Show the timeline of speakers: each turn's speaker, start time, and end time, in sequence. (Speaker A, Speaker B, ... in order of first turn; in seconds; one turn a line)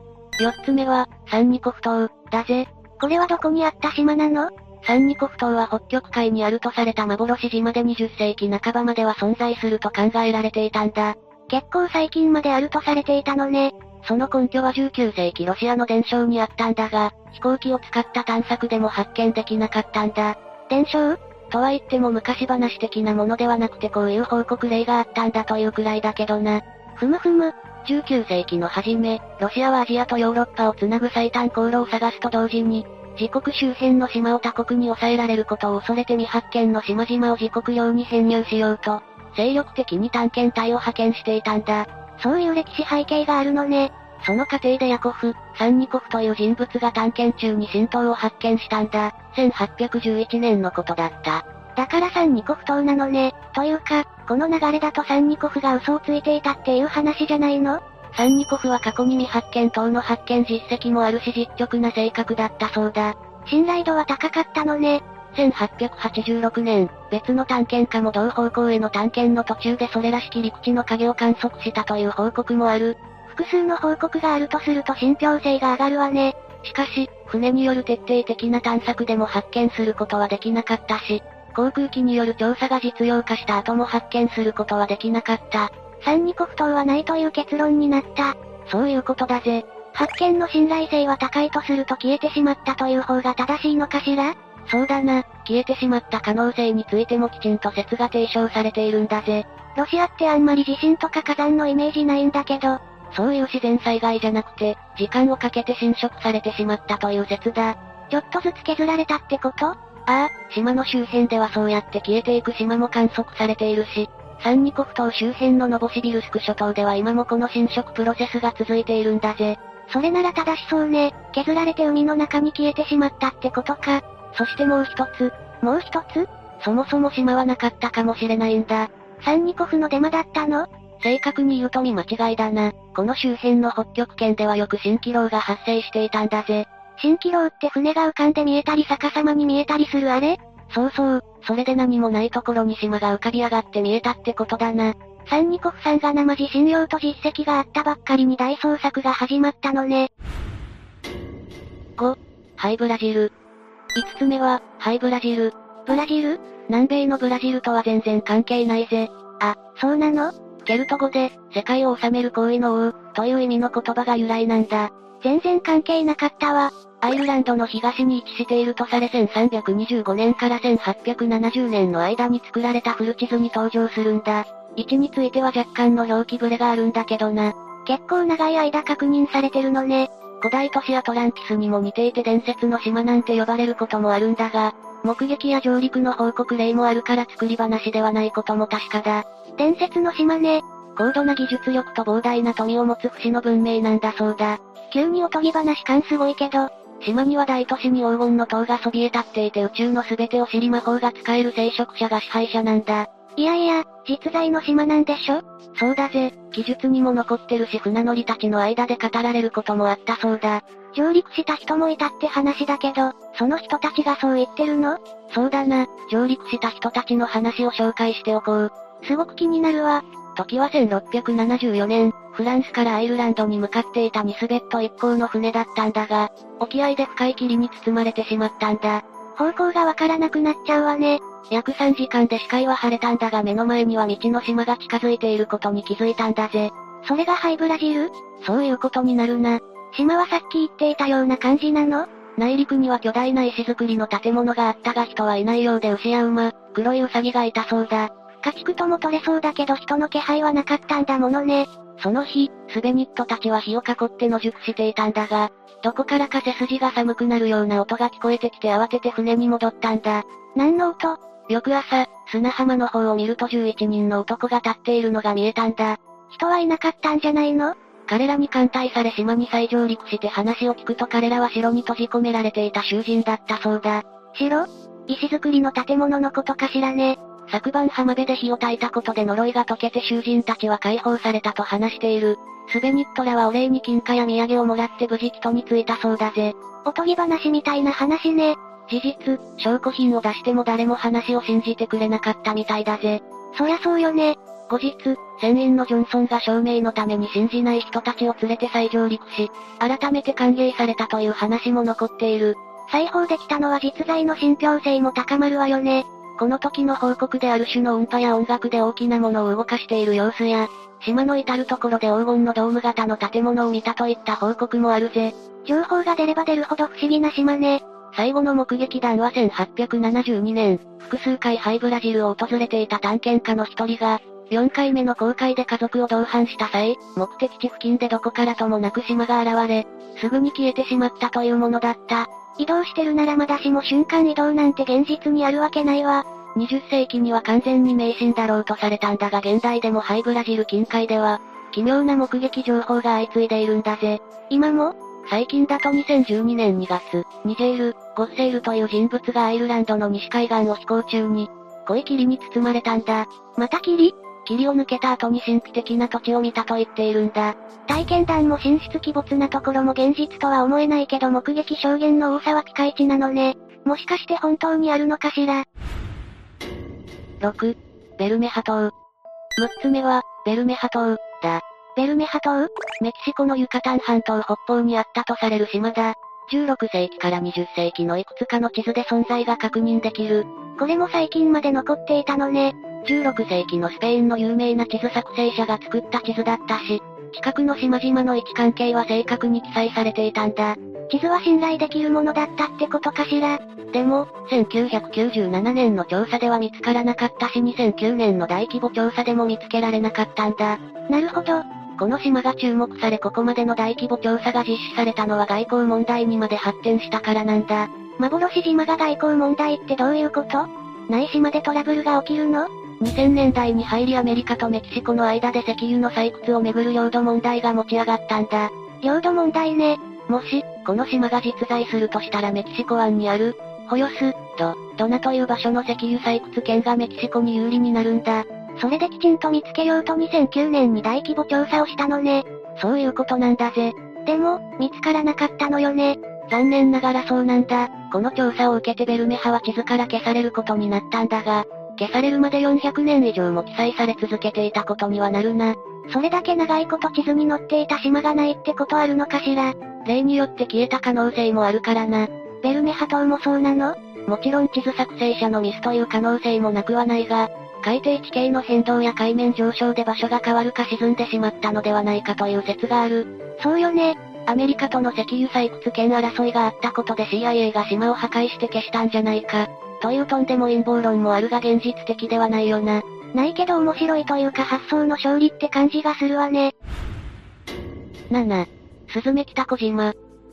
Speaker A: 0.4-150.1
Speaker A: 152.0-153.3
Speaker A: 153.9-365.6
Speaker A: 367.4-368.9
Speaker A: 369.6-476.7
Speaker A: 478.3-480.1